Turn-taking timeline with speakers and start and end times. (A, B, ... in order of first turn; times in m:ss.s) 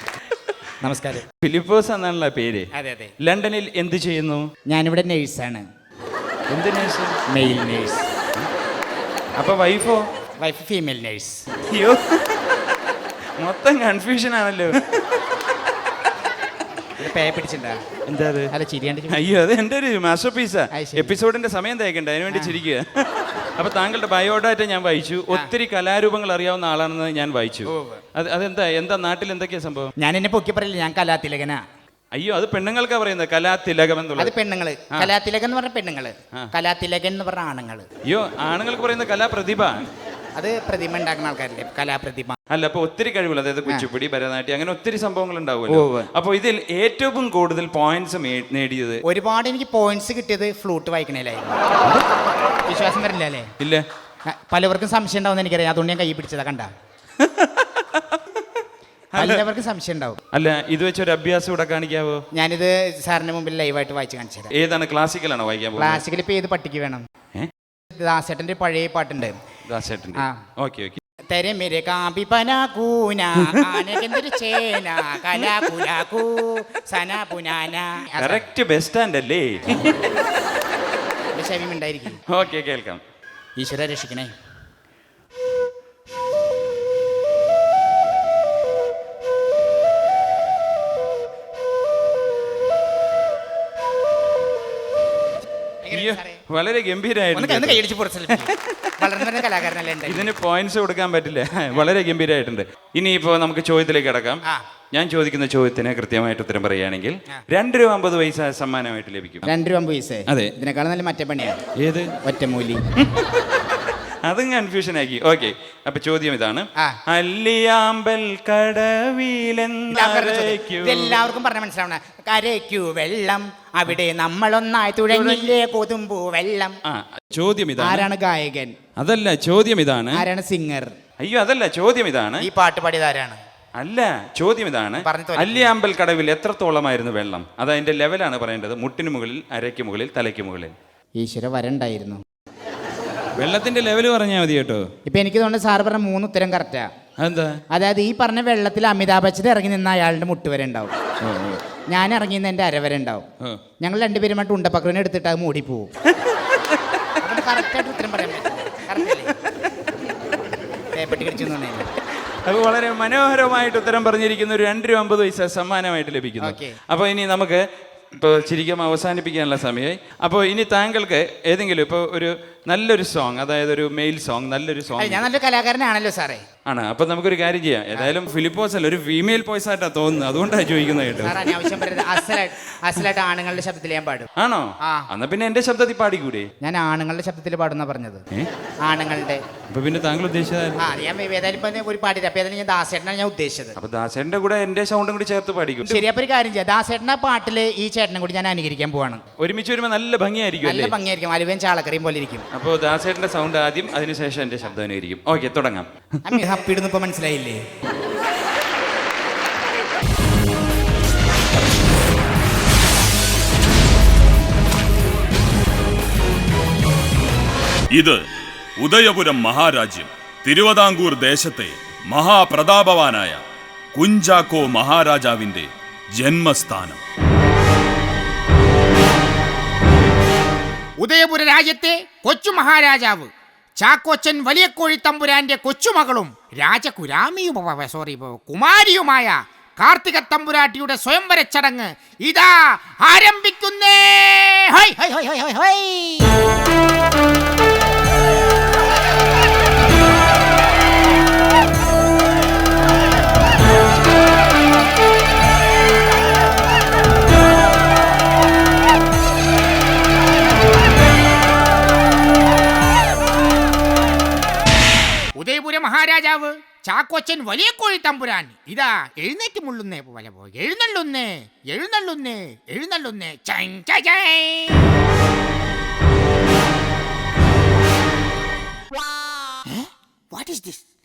0:00.8-0:01.2 A
0:01.4-0:02.7 B
0:02.7-0:03.1 A
0:03.2-0:04.5 B
0:04.7-0:05.6 A
0:06.5-0:07.2 B
0:07.3-0:08.1 A
0:09.4-0:10.0 B
0:10.4-0:11.5 A
0:11.7-0:12.4 B
0:13.4-0:14.7 B
0:17.0-0:17.8 A
0:18.1-0:18.5 B
0:18.5-0:19.2 A
0:19.1-0:22.8 B
0:20.7-0:21.2 A
0:22.3-0:22.6 A
0:23.6-0:29.9 B
0:27.7-0:28.0 A
0:30.0-0:31.6 A
0:32.2-0:34.3 B
0:34.2-0:37.9 A
0:38.1-0:39.8 B
0:40.4-0:42.4 A
0:42.5-0:49.0 B
0:45.7-0:46.1 A
0:49.1-0:52.0 A
0:52.7-0:53.5 A
0:54.3-0:56.7 A
0:57.2-0:58.2 B
0:59.2-0:59.4 B
0:59.2-1:00.2 A
1:00.3-1:02.2 B
1:02.3-1:04.5 A
1:04.5-1:06.0 B
1:05.8-1:07.0 A
1:07.9-1:09.4 A
1:09.7-1:11.0 B
1:10.2-1:10.4 A
1:11.3-1:18.5 A
1:18.2-1:19.8 B
1:21.3-1:22.2 A
1:22.3-1:23.0 B
1:23.6-1:24.3 A
1:35.8-1:36.4 A
1:35.9-1:37.8 B
1:37.3-1:40.3 A
1:38.4-1:39.3 B
1:40.1-1:44.4 B
1:44.9-1:49.5 B
1:49.4-1:51.6 A
1:51.8-1:52.1 B
1:52.2-1:52.8 A
1:53.0-2:01.2 B
1:59.9-2:06.8 A
2:05.1-2:05.5 B
2:06.9-2:08.1 B
2:07.8-2:08.8 A
2:09.0-2:10.2 B
2:10.1-2:11.0 A
2:11.2-2:12.5 B
2:12.4-2:13.4 A
2:13.8-2:20.7 B
2:15.0-2:15.7 A
2:21.2-2:22.2 A
2:23.4-2:24.9 B
2:25.0-2:26.9 A
2:27.2-2:27.6 B
2:27.7-2:31.0 A
2:31.2-2:31.6 B
2:31.9-2:33.3 A
2:33.8-2:35.9 A
2:37.2-2:39.3 A
2:40.9-2:41.9 A
2:42.5-2:47.6 B
2:46.4-2:46.8 A
2:48.2-2:55.3 B
2:55.0-2:56.4 A
2:56.7-3:01.4 B
3:01.2-3:04.3 A
3:04.4-3:06.5 B
3:06.6-3:08.2 A
3:08.8-3:09.4 A
3:09.7-3:10.8 B
3:10.8-3:13.8 A
3:13.8-3:16.1 B
3:15.9-3:19.2 A
3:19.4-3:20.9 B
3:20.6-3:22.4 A
3:22.5-3:25.9 B
3:26.3-3:27.6 A
3:37.9-3:38.2 C
3:38.8-3:43.4 C
3:44.0-3:47.0 C
3:51.0-4:06.3 D
4:25.4-4:34.9 D
4:39.7-4:40.8 D